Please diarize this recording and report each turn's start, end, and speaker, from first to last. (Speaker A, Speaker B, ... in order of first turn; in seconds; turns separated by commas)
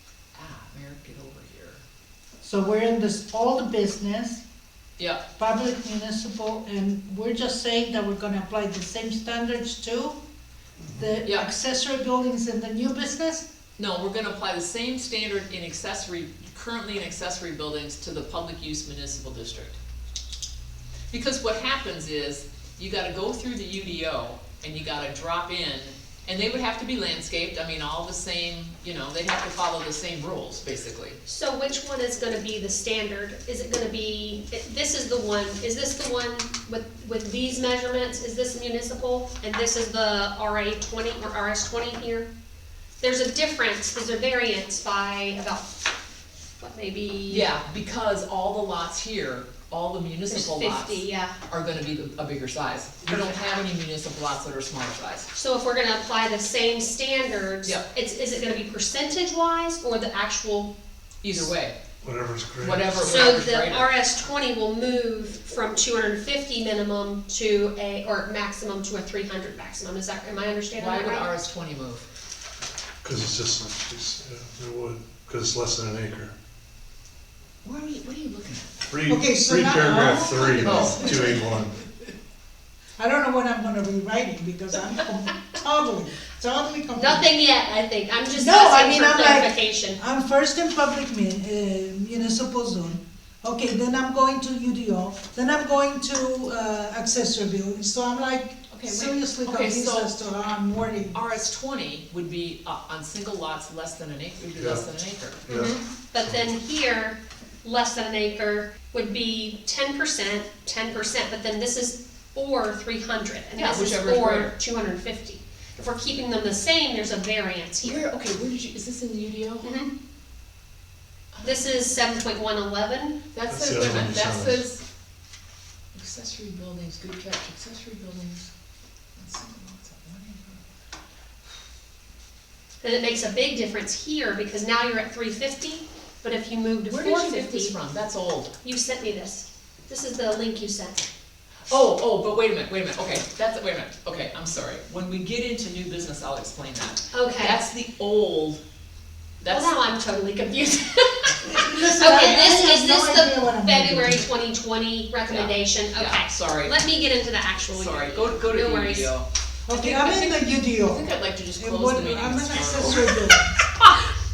Speaker A: 0.3-1.8, Speaker B: 2.4-4.4, Speaker B: 5.4-10.2, Speaker B: 10.9-13.4, Speaker A: 13.8-19.8, Speaker A: 21.1-31.2, Speaker C: 31.2-42.3, Speaker C: 43.0-45.8, Speaker C: 46.6-47.5, Speaker A: 47.3-55.3, Speaker C: 50.3-51.4, Speaker C: 55.3-60.7, Speaker A: 61.2-61.8, Speaker D: 62.0-62.9, Speaker A: 62.6-63.9, Speaker C: 63.0-71.3, Speaker A: 70.7-72.0, Speaker D: 73.0-76.3, Speaker A: 77.6-78.8, Speaker D: 78.9-81.8, Speaker B: 79.1-81.6, Speaker A: 80.6-81.3, Speaker B: 83.0-87.3, Speaker C: 87.0-90.0, Speaker B: 88.3-101.1, Speaker A: 98.7-100.1, Speaker A: 101.1-105.5, Speaker D: 104.5-104.8, Speaker D: 105.5-106.4, Speaker C: 105.5-118.0, Speaker A: 113.5-114.5, Speaker A: 117.8-119.8, Speaker C: 119.6-119.9, Speaker A: 121.3-121.8, Speaker C: 121.4-123.2, Speaker A: 123.3-124.8, Speaker D: 123.5-124.6, Speaker A: 125.9-128.5, Speaker A: 129.2-130.6, Speaker C: 132.8-137.8, Speaker A: 136.9-138.5, Speaker C: 138.6-141.1, Speaker A: 141.7-148.6, Speaker C: 147.1-147.6, Speaker A: 149.4-149.8, Speaker C: 149.4-159.2, Speaker B: 151.4-154.2, Speaker A: 155.3-156.7, Speaker A: 157.7-159.2, Speaker B: 159.7-163.4, Speaker A: 159.8-163.1, Speaker C: 163.8-164.1